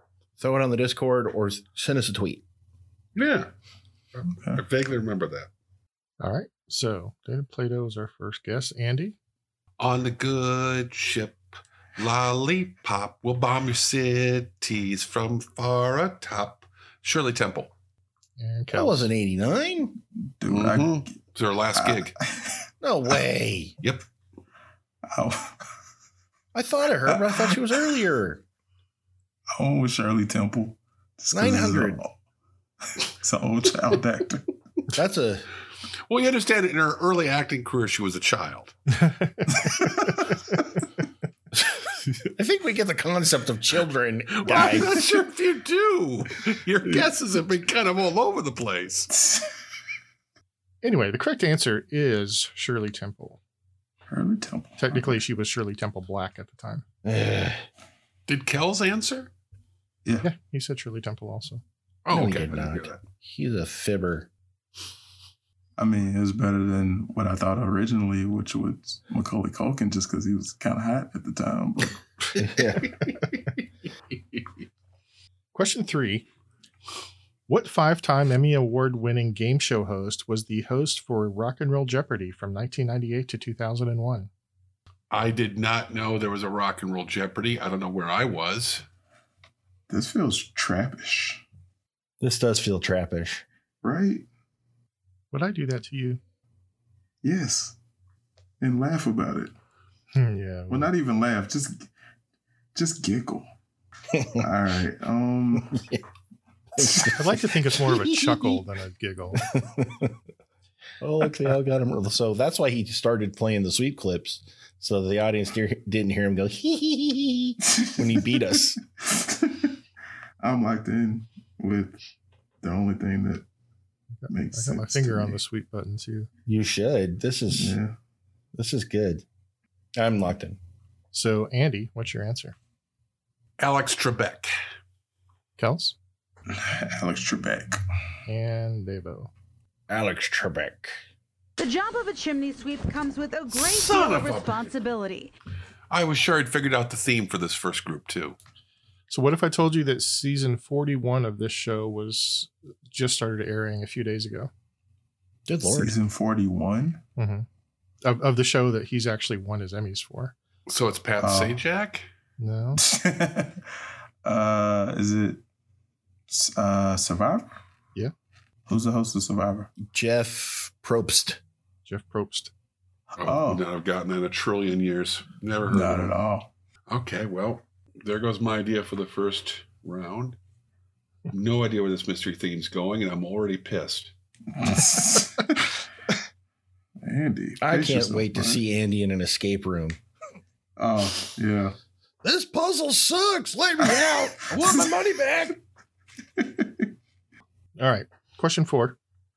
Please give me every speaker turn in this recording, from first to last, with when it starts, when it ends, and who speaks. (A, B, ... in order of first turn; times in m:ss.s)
0:00.4-0:02.4 A
0:03.2-0:03.5 B
0:04.2-0:05.5 B
0:04.3-0:04.6 C
0:06.2-0:09.2 D
0:09.8-0:11.4 B
0:12.0-0:17.7 B
0:18.4-0:19.1 D
0:18.7-0:20.0 A
0:20.2-0:21.2 C
0:20.5-0:22.1 B
0:21.8-0:22.7 C
0:22.8-0:23.8 A
0:25.1-0:25.7 C
0:26.5-0:28.4 A
0:27.1-0:28.0 C
0:29.6-0:32.1 C
0:31.3-0:32.0 A
0:33.0-0:34.5 C
0:34.9-0:35.5 A
0:36.1-0:38.8 B
0:39.0-0:40.1 D
0:39.5-0:40.6 C
0:42.2-0:45.1 A
0:44.3-0:49.1 B
0:50.8-0:53.4 D
0:54.1-0:55.2 C
0:54.8-0:56.8 D
0:57.0-0:57.6 A
0:58.3-0:59.3 B
1:00.2-1:01.6 D
1:02.1-1:03.0 B
1:02.1-1:04.3 A
1:05.8-1:12.0 C
1:12.4-1:12.9 A
1:12.9-1:13.3 B
1:15.5-1:16.3 D
1:17.5-1:24.3 D
1:25.1-1:28.8 B
1:29.9-1:31.4 C
1:32.2-1:33.4 A
1:33.8-1:34.3 C
1:35.3-1:36.2 D
1:37.2-1:37.8 C
1:38.6-1:39.5 C
1:40.1-1:40.9 D
1:40.7-1:41.9 C
1:42.8-1:43.5 C
1:44.1-1:44.5 A
1:44.4-1:45.8 C
1:45.6-1:46.0 A
1:46.8-1:48.6 A
1:46.8-1:47.1 C
1:47.2-1:49.4 D
1:49.4-1:50.2 A
1:51.0-1:58.8 A
1:57.8-1:59.8 C
2:00.4-2:02.0 C
2:02.6-2:03.4 C
2:04.2-2:06.3 D
2:04.3-2:05.4 C
2:06.5-2:07.8 A
2:07.5-2:08.0 C
2:08.5-2:09.2 A
2:10.0-2:10.6 A
2:11.1-2:12.6 D
2:13.6-2:14.5 B
2:15.6-2:16.0 D
2:16.5-2:17.8 C
2:18.3-2:19.3 D
2:19.9-2:21.0 A
2:21.6-2:25.3 E
2:23.5-2:24.7 B
2:25.9-2:28.4 B
2:29.1-2:34.5 D
2:35.5-2:36.0 A
2:35.6-2:37.0 C
2:37.2-2:37.5 D
2:38.0-2:40.4 D
2:40.7-2:42.1 B
2:41.2-2:41.6 C
2:42.4-2:42.8 D
2:42.8-2:43.6 C
2:44.2-2:45.4 C
2:46.3-2:47.5 C
2:48.7-2:49.7 C
2:49.8-2:51.4 A
2:51.9-2:52.5 D
2:53.1-2:53.6 C
2:53.2-2:56.2 B
2:55.7-2:56.5 C
2:56.9-3:00.4 B
3:01.3-3:04.1 B
3:04.5-3:05.8 C
3:07.0-3:08.6 C
3:07.6-3:10.0 A
3:10.8-3:11.8 C
3:12.2-3:15.6 A
3:16.4-3:16.9 C
3:17.8-3:19.0 D